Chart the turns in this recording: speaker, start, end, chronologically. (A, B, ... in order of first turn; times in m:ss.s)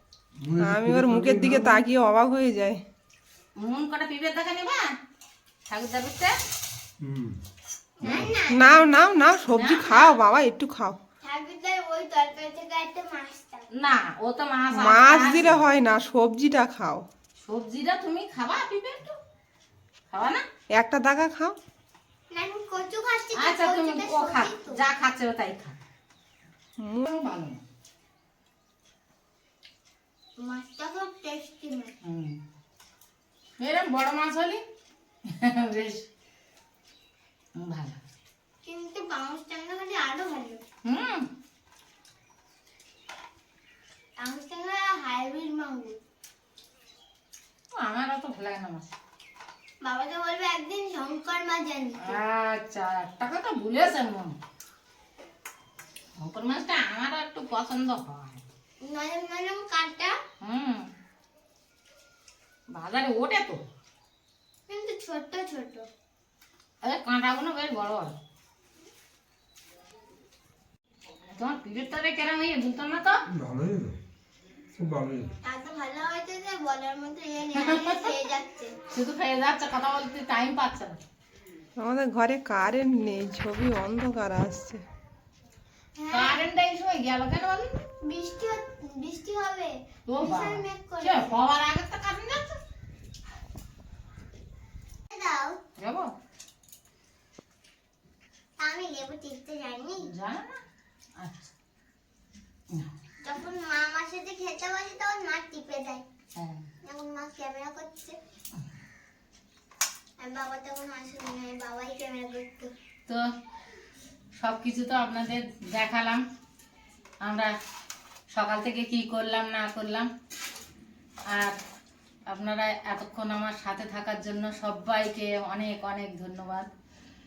0:00.4-0:01.8 A
0:00.6-0:02.8 B
0:03.6-0:04.9 C
0:05.7-0:06.4 C
0:07.0-0:07.4 A
0:08.0-0:08.9 D
0:08.0-0:08.3 A
0:08.5-0:11.0 B
0:09.5-0:10.1 C
0:11.2-0:13.7 D
0:13.8-0:15.6 C
0:14.7-0:17.0 B
0:17.4-0:19.2 C
0:20.1-0:20.4 C
0:20.7-0:21.6 B
0:22.3-0:24.8 D
0:23.4-0:25.8 C
0:26.8-0:27.1 B
0:27.0-0:27.6 C
0:30.4-0:31.9 D
0:32.0-0:32.4 C
0:33.6-0:34.6 C
0:35.3-0:36.1 C
0:37.6-0:38.0 C
0:38.6-0:40.6 D
0:40.8-0:41.3 C
0:44.2-0:46.0 D
0:47.8-0:48.9 C
0:49.8-0:52.2 D
0:52.0-0:54.4 C
0:56.2-0:58.4 C
0:58.8-1:00.1 D
1:00.4-1:00.9 C
1:02.7-1:03.6 C
1:04.7-1:05.9 D
1:06.8-1:08.1 C
1:11.4-1:13.2 C
1:13.3-1:14.0 A
1:14.8-1:15.3 A
1:15.4-1:18.8 D
1:17.6-1:18.2 C
1:18.9-1:21.0 C
1:21.8-1:24.8 B
1:26.0-1:26.4 D
1:26.1-1:27.8 C
1:28.0-1:31.4 D
1:30.1-1:32.6 C
1:35.1-1:35.6 D
1:35.8-1:36.1 C
1:38.6-1:40.1 D
1:40.0-1:40.6 C
1:41.2-1:41.5 C
1:43.2-1:46.0 D
1:46.4-1:46.6 C
1:46.8-1:48.2 D
1:50.2-1:52.7 D
1:54.4-1:56.2 C
1:57.2-1:57.5 C
1:58.3-2:00.1 C
2:01.3-2:01.6 C
2:02.3-2:06.7 C